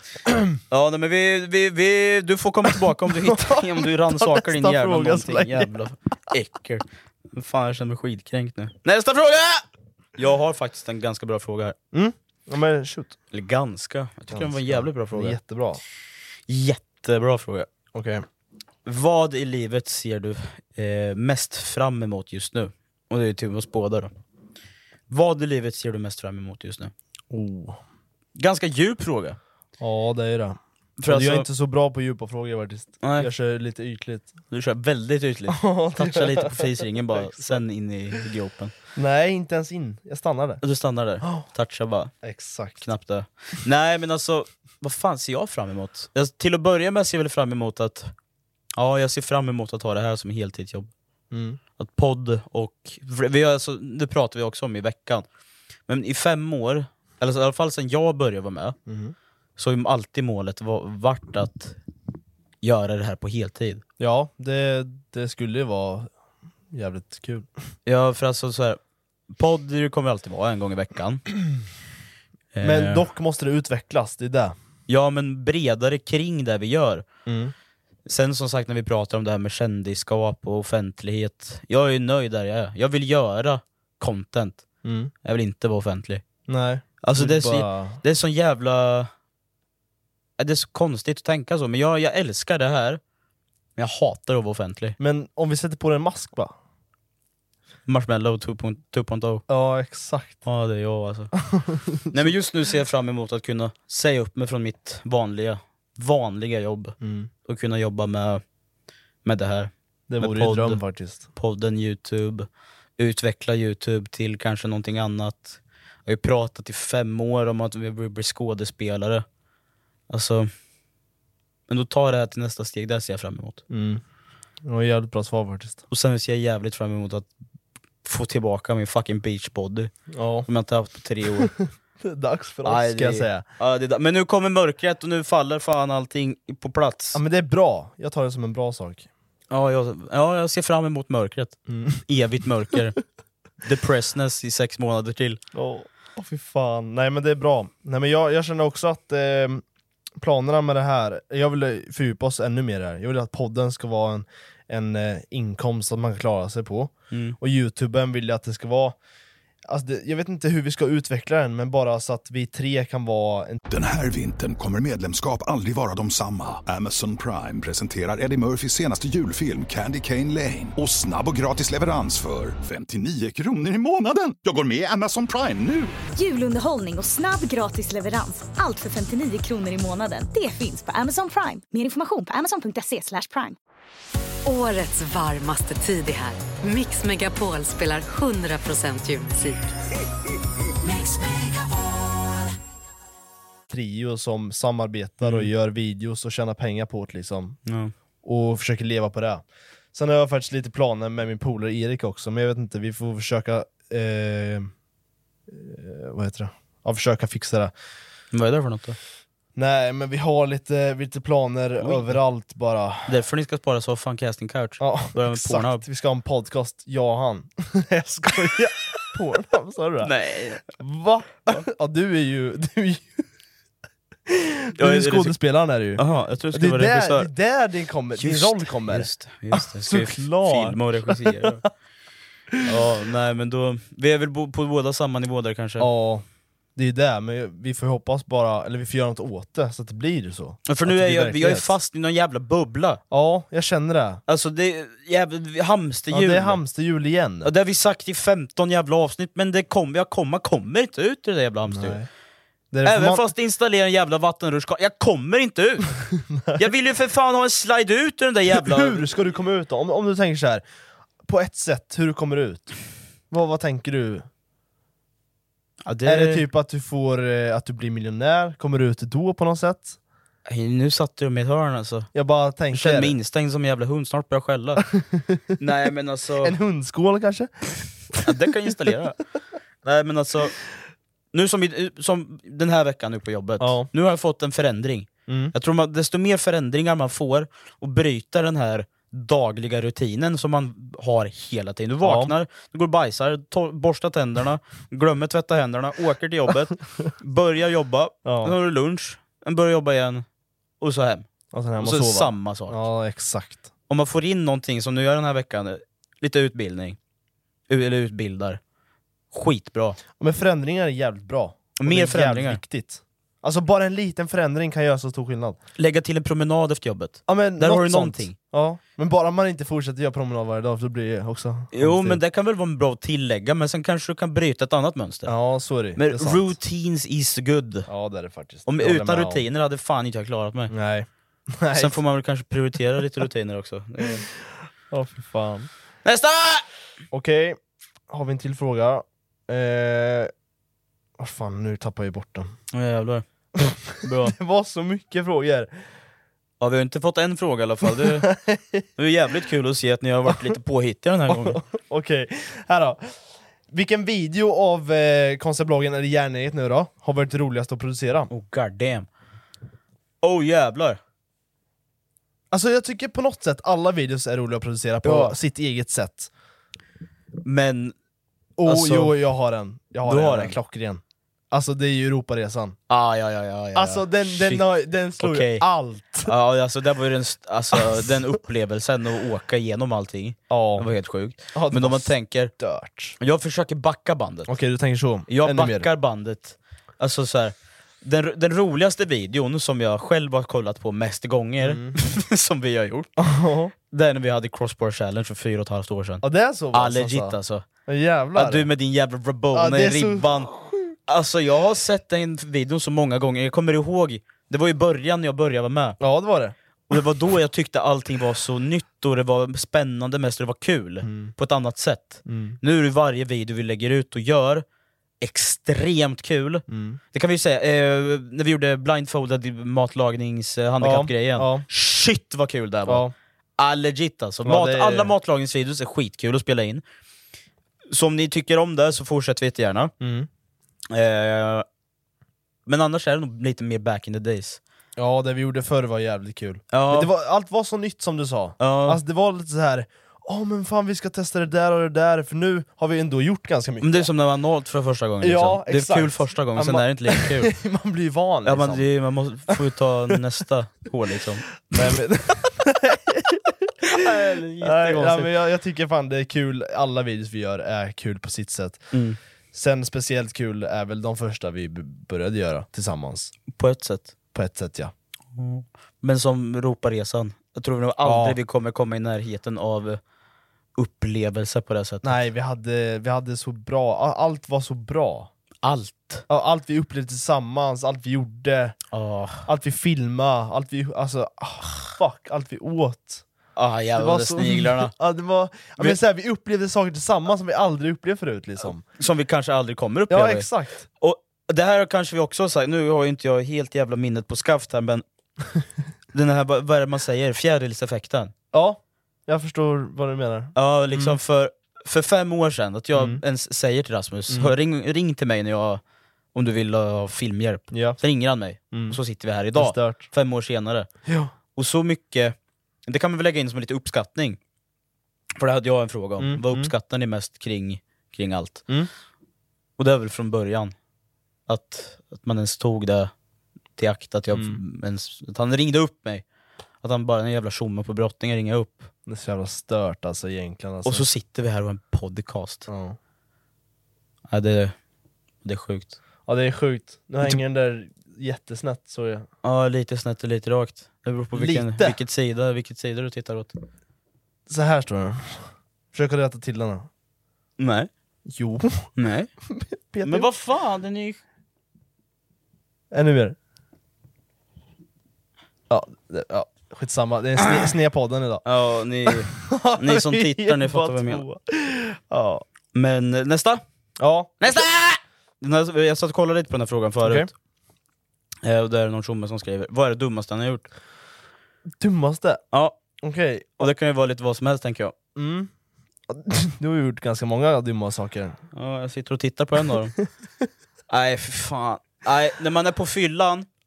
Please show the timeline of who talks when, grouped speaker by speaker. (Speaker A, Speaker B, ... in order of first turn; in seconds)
Speaker A: 0.5-11.7, 13.3-15.4, 16.5-17.7, 18.8-24.1, 25.1-26.9, 28.4-29.4, 31.0-31.5, 33.0-33.3, 34.5-38.7, 40.6-42.1, 42.8-48.1, 48.8-50.9, 51.8-55.2, 55.9-58.8, 59.6-61.8, 62.6-63.8, 67.8-68.8, 69.3-71.2, 72.5-73.0, 74.9-77.0, 78.0-84.6, 85.2-86.2, 87.0-89.1, 90.4-93.0, 93.8-95.0, 97.9-99.4, 100.4-101.3, 102.1-108.4, 109.2-110.8, 111.3-112.5, 113.0-119.2, 120.1-120.5, 121.7-123.6, 125.9-127.3, 128.0-129.9, 130.4-131.5, 132.6-137.2, 139.5-143.0, 143.6-145.4, 157.1-157.4, 195.2-195.5, 197.7-197.9, 208.3-209.0, 211.8-212.2, 213.1-215.8, 220.0-220.7, 224.8-225.3, 226.0-227.3, 228.2-231.6, 232.6-235.9, 240.7-243.0, 244.3-246.6, 247.4-252.0, 252.8-259.1, 265.8-266.4, 270.5-272.1, 272.7-274.9, 275.6-276.6, 278.2-279.2, 279.8-280.5, 281.3-300.2, 300.8-301.3, 301.8-302.8, 303.9-307.0, 307.7-308.6, 309.3-310.0, 311.8-312.6, 315.8-318.4, 321.7-325.3, 325.9-327.9, 328.7-330.7, 331.7-334.2, 336.0-336.6, 342.7-343.2, 344.0-344.3, 346.6-348.3, 349.0-351.6, 358.3-359.1, 360.2-361.0, 365.0-365.4, 367.4-367.9, 368.6-369.1, 370.0-370.6, 372.9-374.6, 375.2-375.6, 376.2-382.5, 383.2-384.5, 385.3-393.1, 393.9-397.6, 398.3-400.5, 401.1-406.0, 406.9-414.6, 415.2-423.1, 423.6-426.8, 427.9-429.9, 430.9-431.6, 432.6-434.6, 436.7-437.1, 438.6-439.0, 443.8-447.5, 448.4-451.6, 453.8-455.3, 458.9-459.2, 463.5-464.1, 465.3-470.0, 470.8-472.2, 475.6-476.2, 478.9-479.5, 483.6-484.9, 488.9-495.0, 496.1-498.3, 500.5-505.8, 506.3-510.9, 511.6-512.3, 512.9-514.4, 515.4-518.6, 519.8-520.7, 521.5-523.1, 523.8-526.2, 526.8-528.9, 530.8-532.7, 534.3-534.7, 535.4-536.0, 539.4-543.5, 547.6-547.9, 549.0-549.3, 550.0-551.2, 558.4-561.2, 562.7-563.6, 564.4-567.3, 568.4-570.7, 572.5-572.8, 573.6-574.9, 578.5-580.0, 580.9-583.5
Speaker B: 3.2-5.7, 11.9-13.2, 14.3-15.8, 17.9-18.2, 27.3-27.8, 29.8-34.3, 35.5-37.6, 39.0-40.6, 42.2-42.9, 51.3-51.6, 58.9-59.1, 64.0-66.1, 66.7-67.5, 72.6-74.5, 77.2-77.5, 84.8-85.1, 86.5-88.0, 95.0-96.5, 99.5-100.4, 101.4-102.3, 107.0-107.3, 110.1-111.2, 123.7-124.0, 124.6-125.8, 130.1-130.5, 131.4-133.4, 137.1-139.1, 141.7-142.0, 145.5-149.6, 150.2-158.9, 159.7-163.6, 193.7-197.6, 198.2-204.7, 205.5-207.7, 209.5-213.1, 214.8-220.1, 220.7-223.2, 224.3-226.0, 226.5-231.6, 235.8-236.2, 236.8-241.7, 243.1-244.2, 246.1-247.5, 251.7-252.1, 252.7-253.2, 256.2-256.6, 258.5-260.6, 261.2-262.7, 263.3-264.3, 266.0-270.0, 272.1-273.1, 274.9-275.5, 276.4-278.4, 283.6-283.9, 285.3-285.5, 292.0-292.3, 298.2-298.5, 301.5-303.6, 310.2-315.6, 317.3-322.2, 325.2-326.5, 327.9-329.4, 330.7-332.0, 334.9-335.7, 337.1-337.6, 338.1-340.3, 341.2-342.5, 343.6-345.7, 348.0-348.8, 351.3-353.2, 353.7-358.3, 362.5-366.3, 368.6-372.8, 373.7-376.3, 377.7-378.1, 380.5-380.9, 381.5-383.2, 384.5-385.9, 391.6-392.0, 393.2-393.7, 396.2-397.4, 397.9-398.7, 399.5-400.8, 406.0-406.5, 411.0-411.3, 412.2-412.6, 416.7-417.0, 420.8-421.6, 422.9-423.1, 424.4-425.1, 430.0-430.3, 435.0-444.1, 445.2-448.9, 451.6-458.9, 459.5-463.3, 464.3-464.9, 468.0-468.4, 472.0-475.3, 476.3-478.8, 479.4-483.2, 483.9-488.8, 490.1-490.9, 498.5-501.2, 502.9-503.2, 504.3-504.5, 507.7-508.0, 508.7-509.0, 509.5-510.1, 511.0-511.3, 516.2-516.7, 524.3-524.6, 529.0-531.0, 532.7-533.0, 536.3-539.3, 541.3-542.0, 544.5-546.9, 548.3-548.9, 549.5-550.3, 552.9-553.4, 555.7-558.4, 559.0-562.4, 564.0-564.6, 567.0-567.3, 571.8-572.4, 573.0-573.7, 575.1-575.5, 576.1-578.4
Speaker C: 163.7-176.0
Speaker D: 176.2-183.6
Speaker E: 184.4-189.7, 190.8-192.1